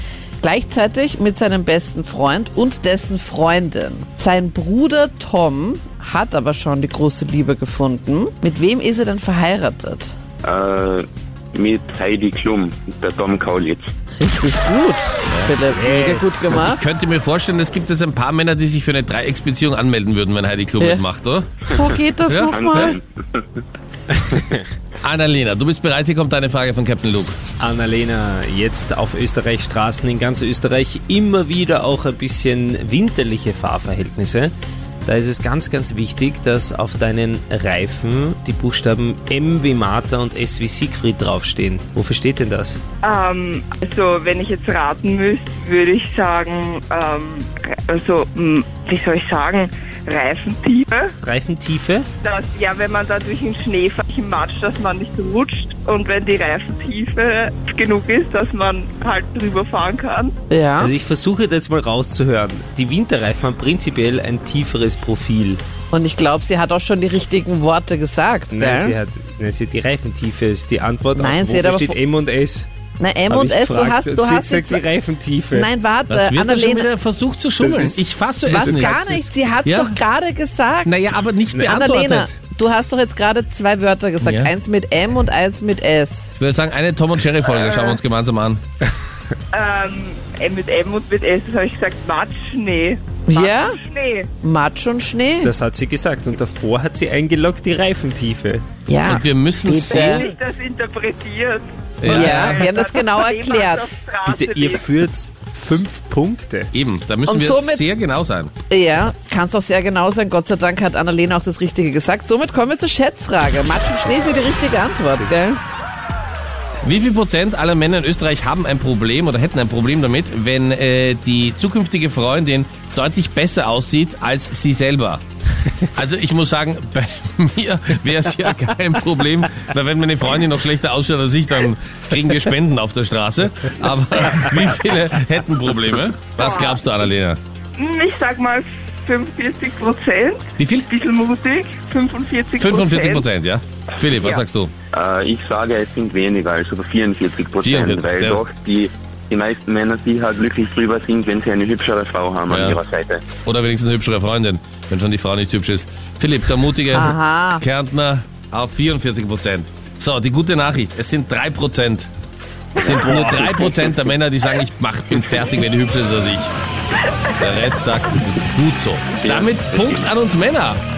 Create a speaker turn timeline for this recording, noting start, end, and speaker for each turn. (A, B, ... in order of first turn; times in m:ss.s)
0:00.4-0:10.1 A
0:10.4-0:13.9 B
0:14.2-0:16.8 A
0:15.7-0:16.6 C
0:16.4-0:21.6 D
0:21.7-0:23.0 A
0:22.2-0:22.9 D
0:22.5-0:23.6 B
0:25.0-0:27.4 D
0:27.6-0:34.5 C
0:35.0-0:42.8 C
0:43.0-0:51.1 E
0:51.2-0:52.1 C
0:52.2-1:00.3 E
1:00.5-1:00.9 A
1:00.8-1:05.6 C
1:05.9-1:09.0 A
1:08.5-1:12.7 C
1:11.2-1:12.0 A
1:13.0-1:14.8 A
1:13.3-1:15.7 C
1:15.5-1:16.9 A
1:16.1-1:19.0 D
1:17.6-1:19.3 C
1:18.4-1:20.9 A
1:19.6-1:20.0 D
1:20.8-1:22.3 D
1:21.5-1:21.9 C
1:21.6-1:26.3 A
1:24.2-1:24.5 D
1:26.4-1:28.6 D
1:27.4-1:28.0 E
1:29.5-1:34.3 E
1:33.3-1:33.8 A
1:34.4-1:35.5 A
1:35.4-1:38.6 C
1:38.9-1:40.3 A
1:39.0-1:40.2 D
1:39.9-1:44.9 E
1:42.0-1:42.6 D
1:42.0-1:43.9 A
1:44.2-1:46.7 C
1:46.7-1:48.5 D
1:47.2-1:47.8 A
1:48.7-1:55.6 A
1:56.8-2:05.2 D
2:05.9-2:17.4 D
2:16.4-2:16.8 E
2:17.8-2:23.3 E
2:20.6-2:20.9 D
2:22.6-2:24.7 D
2:24.1-2:24.4 E
2:24.9-2:33.2 B
2:27.6-2:28.4 D
2:32.5-2:32.8 D
2:33.4-2:42.1 D
2:36.9-2:37.6 A
2:42.8-2:46.5 D
2:42.8-2:44.1 B
2:47.3-2:50.8 D
2:49.2-2:50.1 B